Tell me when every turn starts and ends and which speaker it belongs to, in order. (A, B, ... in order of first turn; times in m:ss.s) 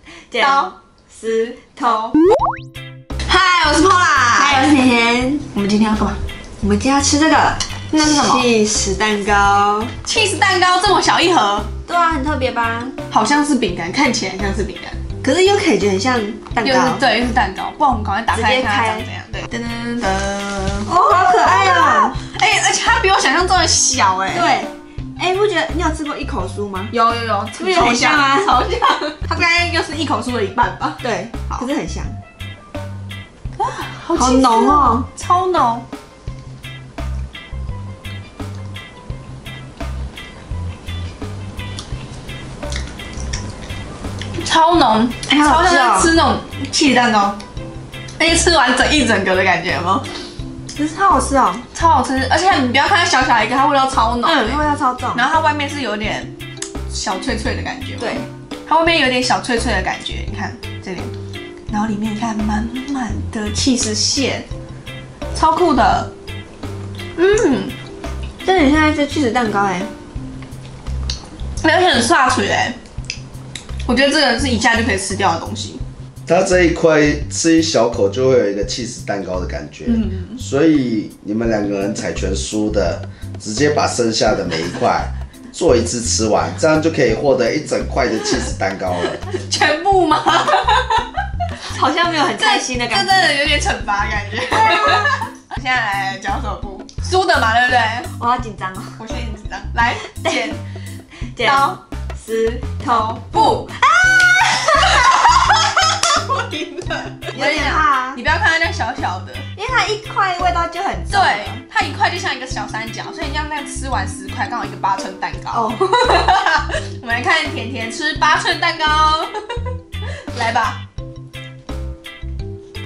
0:00.3-0:02.0 A
0:00.4-0:00.7 B
0:01.3-0:02.2 B
0:03.3-0:04.6 B
0:04.2-0:05.4 A
0:05.5-0:06.2 B
0:06.6-0:09.9 A
0:07.9-0:08.5 B
0:10.0-0:11.7 B
0:11.9-0:13.0 A
0:13.1-0:15.0 B
0:15.2-0:17.0 A
0:16.6-0:24.6 B
0:18.3-0:19.1 A
0:20.8-0:22.2 A
0:24.3-0:26.9 A
0:26.9-0:31.6 B
0:27.5-0:28.8 A
0:31.0-0:32.2 A
0:33.6-0:35.8 B
0:34.1-0:35.1 A
0:44.4-0:47.4 B
0:45.3-0:46.1 A
0:48.2-0:50.0 B
0:50.8-0:51.6 A
0:51.7-0:54.6 B
0:54.2-0:55.3 A
0:55.1-0:56.3 B
0:56.9-1:01.1 B
0:58.0-0:58.3 A
1:01.7-1:04.5 B
1:05.3-1:06.1 B
1:07.2-1:07.8 B
1:08.4-1:09.9 A
1:11.6-1:12.8 B
1:13.8-1:15.8 B
1:16.2-1:29.2 C
1:19.8-1:20.4 B
1:29.1-1:31.1 B
1:31.6-1:33.3 A
1:32.4-1:38.1 B
1:38.1-1:39.0 A
1:39.0-1:40.6 B
1:40.1-1:40.5 A
1:41.3-1:45.2 A
1:41.4-1:41.8 B
1:42.8-1:49.4 B
1:47.3-1:48.2 A
1:49.5-1:51.6 A
1:51.1-1:59.4 B
1:55.5-1:56.1 A
2:00.3-2:00.8 B